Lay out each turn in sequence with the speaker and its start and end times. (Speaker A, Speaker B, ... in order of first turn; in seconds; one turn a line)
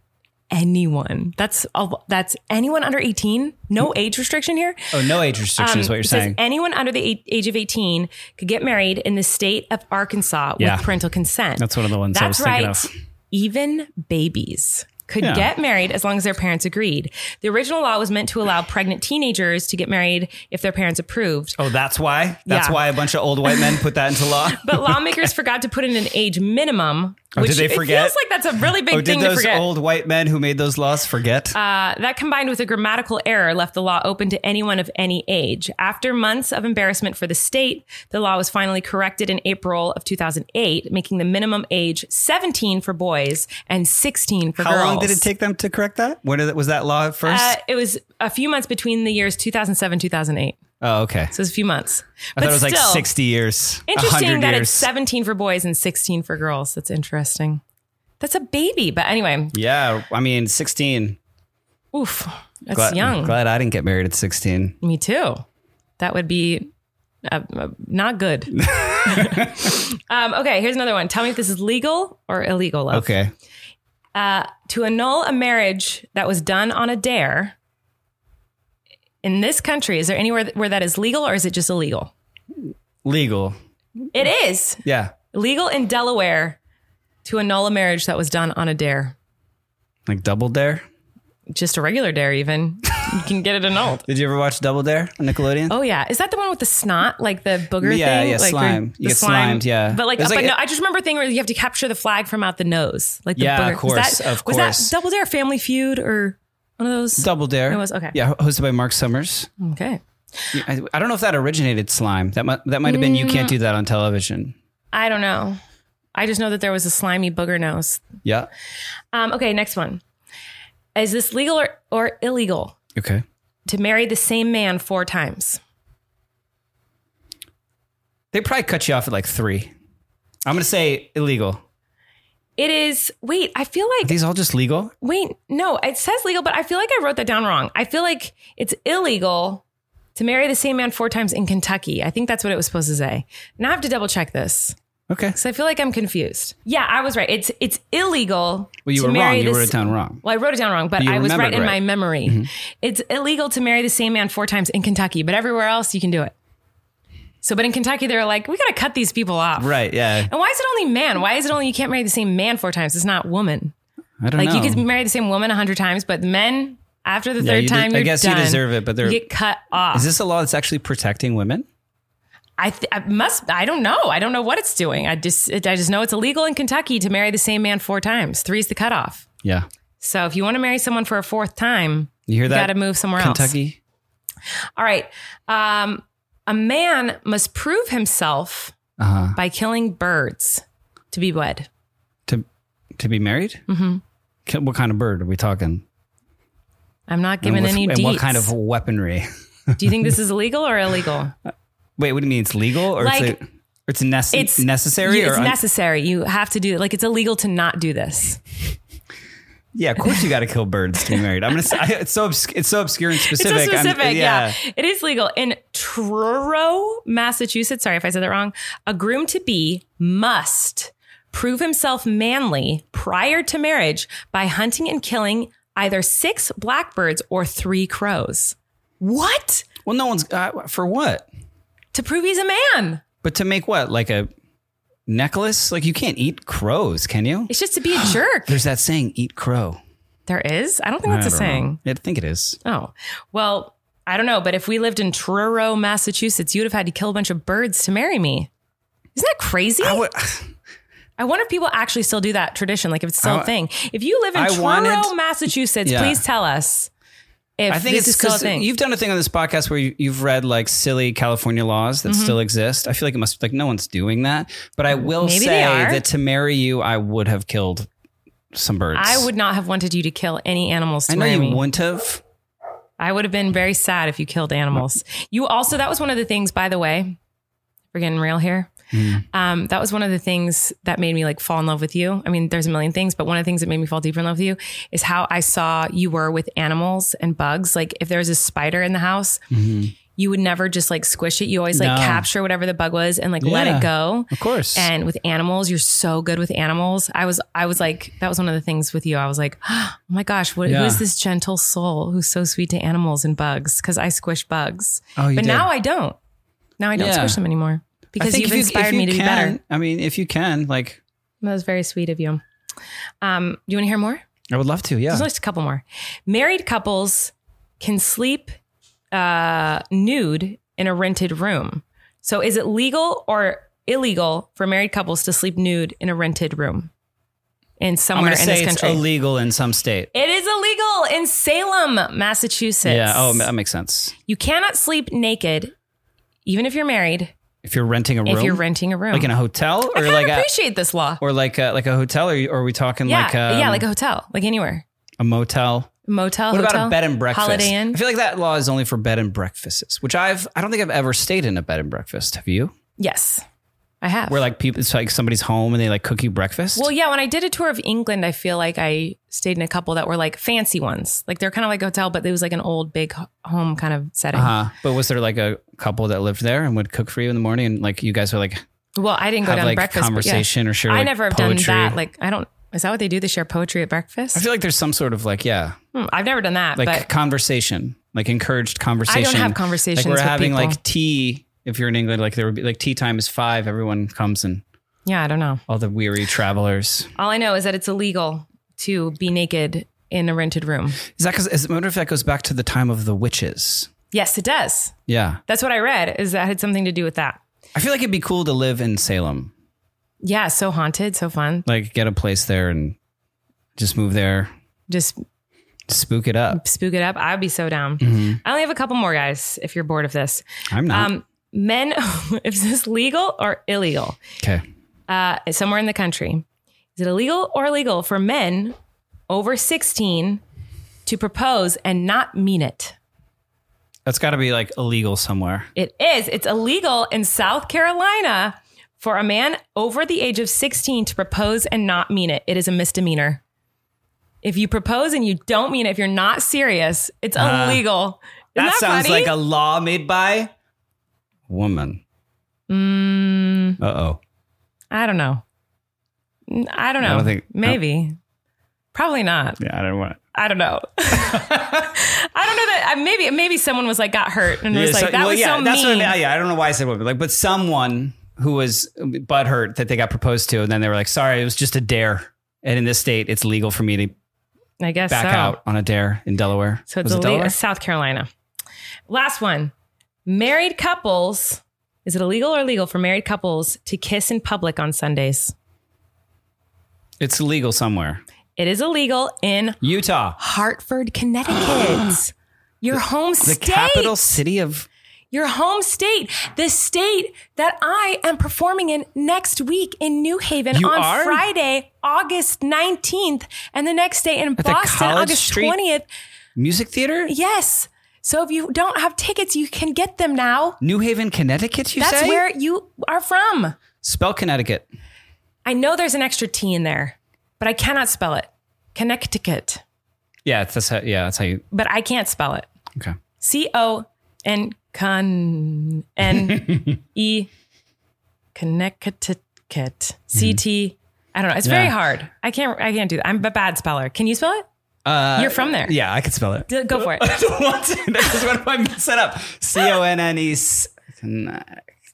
Speaker A: 0.5-4.9
Speaker B: 4.9-6.4
Speaker A: 5.6-21.6
Speaker B: 10.6-10.9
Speaker B: 11.6-12.9
Speaker B: 15.2-15.5
Speaker B: 21.6-25.3
Speaker A: 22.5-22.8
Speaker A: 23.5-23.8
Speaker A: 24.5-29.7
Speaker B: 27.3-28.2
Speaker B: 28.8-31.6
Speaker A: 31.5-45.2
Speaker B: 44.6-47.5
Speaker A: 47.2-50.6
Speaker B: 50.8-51.3
Speaker A: 51.3-53.1
Speaker B: 52.4-54.9
Speaker A: 53.9-57.6
Speaker A: 58.2-59.5
Speaker B: 59.5-61.2
Speaker A: 61.9-63.4
Speaker B: 62.7-64.8
Speaker A: 64.8-65.4
Speaker A: 66.0-66.7
Speaker A: 67.2-73.1
Speaker B: 68.6-69.7
Speaker B: 72.9-73.3
Speaker A: 74.1-77.5
Speaker A: 79.2-82.1
Speaker B: 83.0-83.6
Speaker A: 84.1-86.6
Speaker B: 84.8-85.1
Speaker A: 87.2-89.2
Speaker B: 90.1-90.8
Speaker A: 91.5-94.0
Speaker B: 94.0-95.7
Speaker A: 95.7-108.2
Speaker B: 97.8-100.5
Speaker B: 103.4-104.9
Speaker B: 107.2-109.5
Speaker A: 109.6-110.5
Speaker B: 110.5-114.5
Speaker A: 112.8-113.5
Speaker A: 114.9-115.6
Speaker A: 116.1-118.0
Speaker B: 118.2-118.5
Speaker A: 119.1-120.0
Speaker A: 120.9-122.7
Speaker B: 122.9-123.2
Speaker A: 123.7-125.6
Speaker B: 128.3-129.7
Speaker B: 130.4-131.6
Speaker A: 132.6-134.1
Speaker B: 134.0-134.9
Speaker A: 135.0-139.6
Speaker A: 140.1-144.8
Speaker B: 145.1-145.4
Speaker A: 145.3-156.3
Speaker B: 148.8-150.2
Speaker B: 151.0-152.5
Speaker A: 157.4-163.7
Speaker B: 159.6-160.3
Speaker B: 164.2-164.8
Speaker A: 164.3-170.1
Speaker B: 167.4-169.3
Speaker B: 169.9-171.7
Speaker A: 172.6-179.2
Speaker A: 180.0-183.5
Speaker B: 182.3-183.8
Speaker A: 184.8-188.7
Speaker B: 189.0-189.4
Speaker A: 189.3-191.7
Speaker B: 192.3-193.6
Speaker A: 193.7-194.0
Speaker B: 194.4-195.8
Speaker A: 197.1-198.5
Speaker B: 197.4-199.3
Speaker A: 199.8-201.3
Speaker B: 199.8-200.1
Speaker B: 202.0-205.6
Speaker A: 203.0-203.4
Speaker A: 204.3-208.4
Speaker B: 209.7-214.6
Speaker A: 213.3-229.7
Speaker B: 229.8-231.3
Speaker A: 231.9-233.0
Speaker B: 233.2-234.3
Speaker B: 235.1-239.8
Speaker A: 237.5-238.6
Speaker A: 240.3-241.8
Speaker B: 241.0-242.6
Speaker A: 242.6-248.5
Speaker A: 249.1-250.0
Speaker B: 249.8-250.5
Speaker A: 251.2-256.9
Speaker B: 253.2-253.5
Speaker B: 254.3-255.1
Speaker B: 255.8-256.2
Speaker A: 257.6-258.7
Speaker B: 257.7-267.9
Speaker A: 262.1-262.4
Speaker A: 264.9-266.0
Speaker B: 268.5-269.3
Speaker A: 268.9-271.6
Speaker B: 271.1-272.2
Speaker A: 273.0-277.2
Speaker A: 277.9-278.7
Speaker B: 278.9-279.2
Speaker A: 279.3-289.4
Speaker B: 289.5-289.9
Speaker A: 290.1-306.2
Speaker B: 291.7-292.3
Speaker B: 293.4-294.9
Speaker B: 300.6-301.0
Speaker B: 305.1-305.7
Speaker A: 306.8-309.6
Speaker B: 306.9-307.4
Speaker B: 308.1-311.0
Speaker A: 311.4-312.4
Speaker A: 313.2-314.2
Speaker B: 314.5-315.3
Speaker A: 315.1-318.5
Speaker A: 319.1-326.9
Speaker A: 327.8-329.0
Speaker B: 328.1-330.1
Speaker A: 330.1-333.5
Speaker B: 332.8-334.1
Speaker A: 334.3-335.7
Speaker A: 336.4-337.3
Speaker B: 337.6-340.5
Speaker A: 338.2-339.3
Speaker A: 339.9-341.2
Speaker B: 341.2-343.9
Speaker A: 343.1-344.8
Speaker B: 345.2-345.9
Speaker A: 346.1-348.0
Speaker B: 346.5-352.7
Speaker A: 353.0-353.4
Speaker A: 354.0-354.4
Speaker B: 354.3-356.9
Speaker A: 356.7-364.5
Speaker B: 364.3-368.6
Speaker A: 368.9-374.4
Speaker B: 369.4-372.0
Speaker B: 374.3-375.8
Speaker A: 375.9-377.1
Speaker B: 376.8-384.6
Speaker A: 379.1-380.8
Speaker A: 385.1-385.6
Speaker B: 385.7-387.1
Speaker A: 387.1-391.0
Speaker B: 391.1-393.9
Speaker A: 394.1-394.9
Speaker B: 395.1-395.4
Speaker A: 395.5-397.4
Speaker B: 397.7-399.5
Speaker A: 400.2-401.6
Speaker B: 401.6-403.0
Speaker B: 403.8-404.5
Speaker A: 404.9-405.2
Speaker B: 405.9-406.6
Speaker A: 406.5-414.2
Speaker B: 408.0-408.4
Speaker B: 410.7-411.1
Speaker A: 415.1-416.4
Speaker A: 416.9-418.7
Speaker A: 419.3-420.4
Speaker A: 421.0-422.9
Speaker B: 424.1-425.7
Speaker A: 425.8-433.4
Speaker A: 434.4-439.3
Speaker B: 437.4-437.8
Speaker B: 438.5-440.5
Speaker B: 441.5-442.0
Speaker A: 442.7-443.8
Speaker B: 443.8-444.2
Speaker A: 444.9-445.4
Speaker A: 446.5-448.2
Speaker B: 447.0-447.8
Speaker A: 448.9-449.6
Speaker B: 449.6-450.2
Speaker A: 450.3-456.1
Speaker B: 451.1-451.9
Speaker B: 454.7-464.1
Speaker A: 464.8-465.6
Speaker B: 465.1-467.6
Speaker A: 466.9-468.3
Speaker A: 469.1-469.7
Speaker A: 470.2-475.5
Speaker B: 477.2-478.2
Speaker A: 478.6-479.8
Speaker B: 479.8-480.4
Speaker A: 480.4-484.2
Speaker B: 481.6-482.1
Speaker B: 482.9-484.9
Speaker A: 485.3-496.1
Speaker B: 490.7-491.4
Speaker B: 494.6-495.8
Speaker B: 496.6-497.3
Speaker A: 497.3-500.8
Speaker B: 500.8-502.4
Speaker A: 502.0-503.8
Speaker B: 504.0-504.9
Speaker A: 505.6-509.8
Speaker B: 510.4-511.6
Speaker A: 511.7-512.7
Speaker A: 513.4-517.5
Speaker B: 516.4-516.9
Speaker A: 518.5-524.6
Speaker B: 521.6-522.0
Speaker B: 525.0-531.9
Speaker A: 525.4-525.9
Speaker A: 526.7-527.3